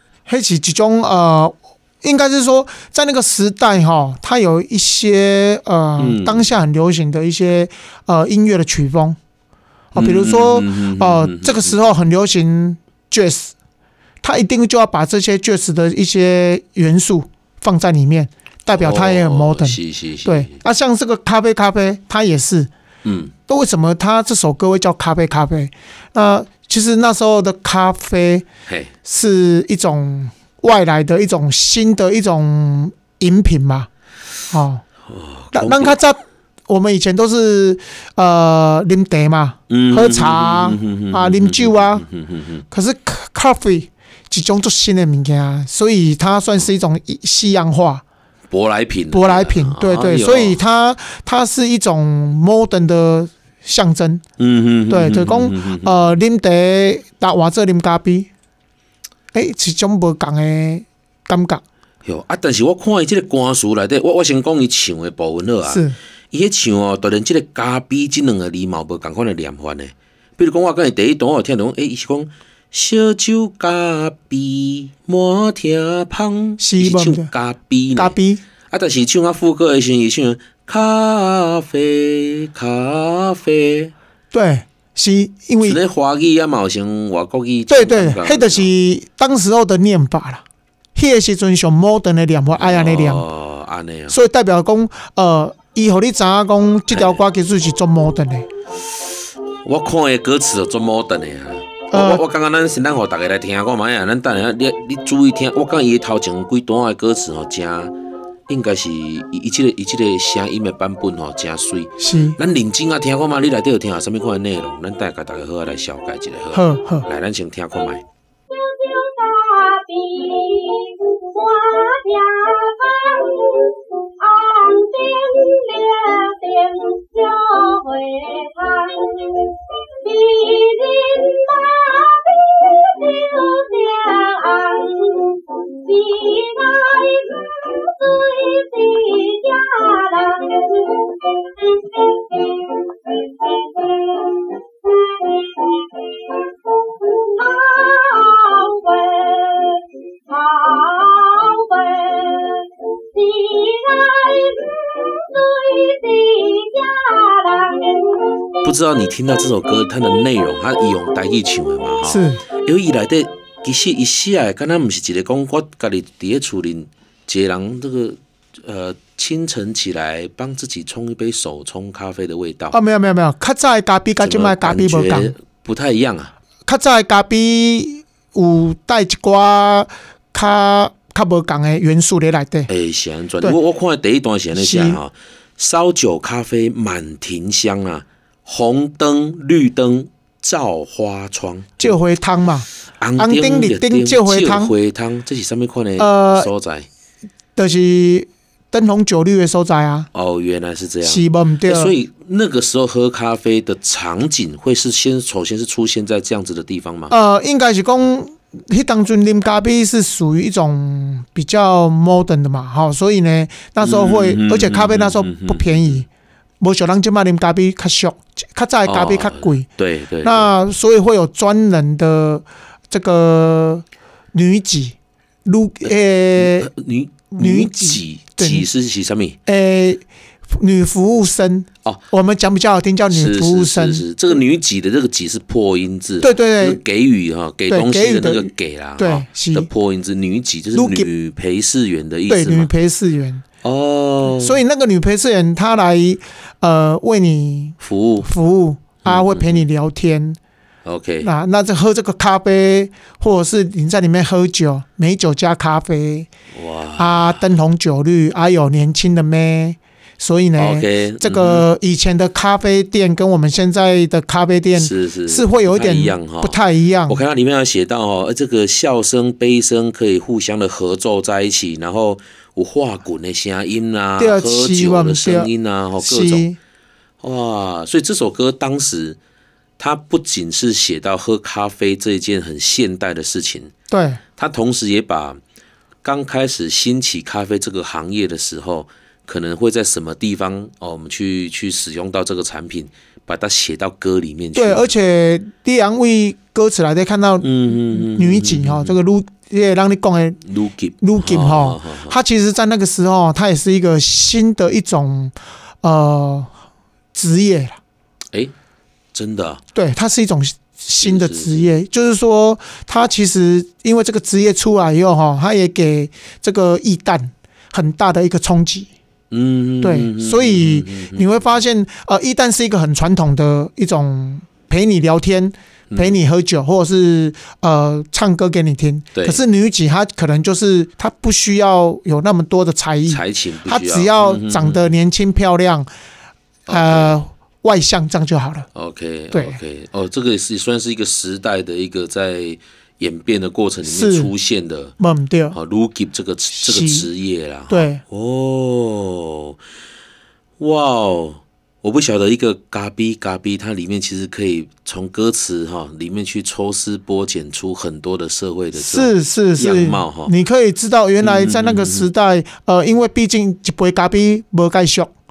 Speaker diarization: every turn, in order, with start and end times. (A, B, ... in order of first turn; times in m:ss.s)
0:00.3-0:09.2 A
0:06.0-0:06.5 B
0:09.9-0:13.5 A
0:10.0-0:11.8 B
0:14.2-0:22.7 A
0:18.7-0:20.6 B
0:23.0-0:23.3 B
0:23.5-0:28.5 A
0:29.0-0:33.9 A
0:34.5-0:34.8 A
0:35.1-0:36.0 B
0:35.5-0:42.1 A
0:39.7-0:42.6 B
0:42.7-0:48.0 A
0:48.5-0:50.6 B
0:49.1-0:54.2 A
0:54.4-0:56.1 B
0:54.9-0:58.3 A
0:59.3-1:01.6 A
1:02.0-1:18.2 B
1:05.6-1:06.0 A
1:16.6-1:17.3 A
1:18.0-1:18.4 A
1:18.7-1:23.9 B
1:24.3-1:25.8 A
1:25.6-1:28.7 B
1:27.7-1:30.4 A
1:31.0-1:33.2 A
1:32.6-1:34.2 B
1:34.1-1:38.5 A
1:36.9-1:37.2 B
1:39.6-1:47.9 B
1:41.9-1:42.2 A
1:48.5-1:58.0 B
1:52.0-1:52.4 A
1:56.5-1:57.1 A
1:58.8-2:21.0 C
2:23.4-2:24.5 C
2:27.3-2:32.7 C
2:33.2-2:38.0 C
2:38.6-2:52.8 B
2:42.0-2:42.4 A
2:52.7-2:55.3 A
2:54.2-2:56.3 B
2:56.7-3:02.7 A
3:02.7-3:12.0 B
3:04.6-3:05.0 A
3:11.8-3:14.7 A
3:13.0-3:16.9 B
3:16.0-3:16.5 A
3:17.6-3:20.1 A
3:20.1-3:27.2 B
3:21.0-3:22.0 A
3:27.1-3:36.1 A
3:33.8-3:36.0 B
3:36.6-3:39.7 A
3:38.9-3:40.5 B
3:40.2-3:46.7 A
3:45.8-3:49.4 B
3:47.3-3:48.7 A
3:49.5-3:54.1 A
3:53.1-4:02.7 B
3:56.2-3:56.8 A
3:57.7-3:59.7 A
4:00.7-4:01.1 A
4:02.3-4:03.4 A
4:03.6-4:04.6 B
4:04.3-4:10.4 A
4:07.8-4:08.3 B
4:09.0-4:09.7 B
4:10.8-4:11.3 B
4:11.2-4:16.3 A
4:16.5-4:17.4 B
4:17.0-4:27.2 A
4:20.6-4:21.7 B
4:24.7-4:36.5 B
4:34.2-4:36.6 A
4:37.2-4:39.2 B
4:39.8-4:43.7 B
4:43.9-4:44.2 A
4:44.4-4:45.4 B
4:46.0-4:54.9 B
4:54.6-5:00.4 A
4:57.4-4:59.0 B
5:00.4-5:02.2 B
5:01.0-5:06.5 A
5:07.1-5:07.8 A
5:09.1-5:09.6 B
5:09.7-5:18.9 A
5:11.0-5:11.8 B
5:19.3-5:21.6 B
5:19.8-5:35.9 A
5:25.9-5:26.2 B
5:29.2-5:29.4 B
5:33.1-5:34.9 B
5:36.7-5:37.3 B
5:36.7-5:38.7 A
5:38.7-5:44.9 B
5:39.3-5:39.6 A
5:43.8-5:44.3 A
5:45.0-5:45.6 A
5:45.5-5:49.6 B
5:46.6-5:47.1 A
5:47.7-5:48.0 A
5:50.6-6:00.3 B
5:58.8-6:05.1 A
6:01.2-6:02.1 B